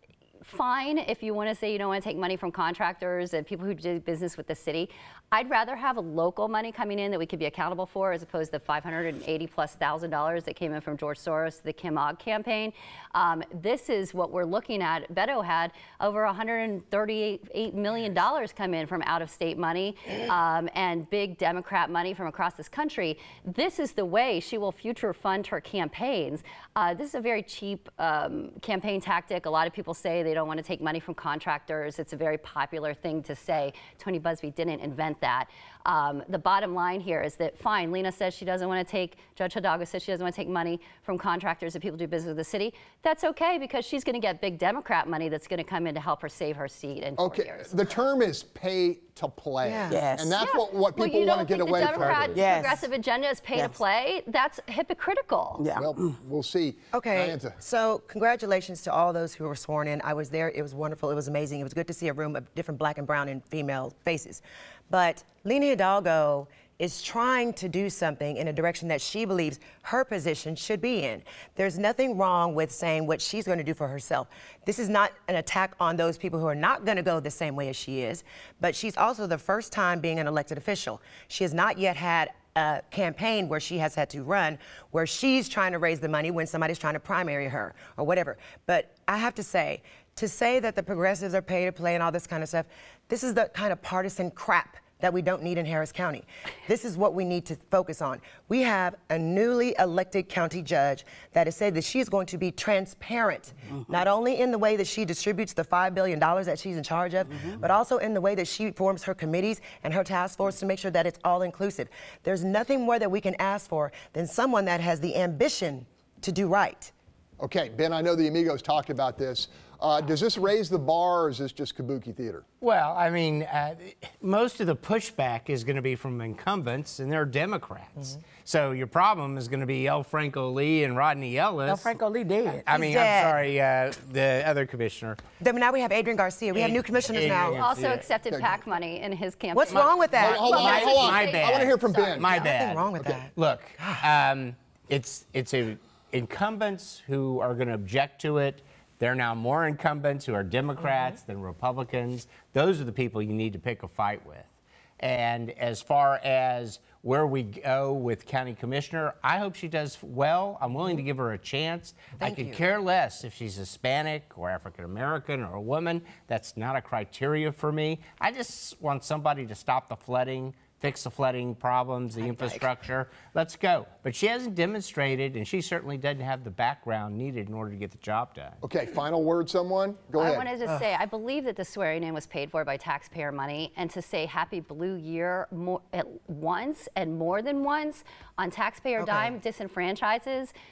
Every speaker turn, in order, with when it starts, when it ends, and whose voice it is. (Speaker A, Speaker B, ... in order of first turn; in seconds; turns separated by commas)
Speaker A: 0.4-47.9, Speaker B: 47.2-52.4, Speaker C: 49.6-50.0, Speaker D: 49.9-50.3, Speaker A: 50.4-55.6, Speaker D: 52.3-52.8, Speaker D: 55.6-56.1, Speaker B: 55.7-57.6, Speaker C: 56.9-116.9, Speaker B: 117.4-122.4, Speaker E: 122.6-131.9, Speaker D: 131.7-132.8, Speaker E: 132.6-135.2, Speaker C: 132.8-133.4, Speaker C: 135.4-137.6, Speaker E: 136.5-138.0, Speaker A: 137.5-141.6, Speaker B: 138.3-138.6, Speaker C: 139.5-140.5, Speaker E: 139.7-178.6, Speaker B: 140.2-142.3, Speaker C: 141.9-144.1, Speaker C: 162.2-162.7, Speaker C: 172.2-172.7, Speaker B: 178.6-180.5, Speaker A: 180.1-190.5, Speaker C: 189.0-189.4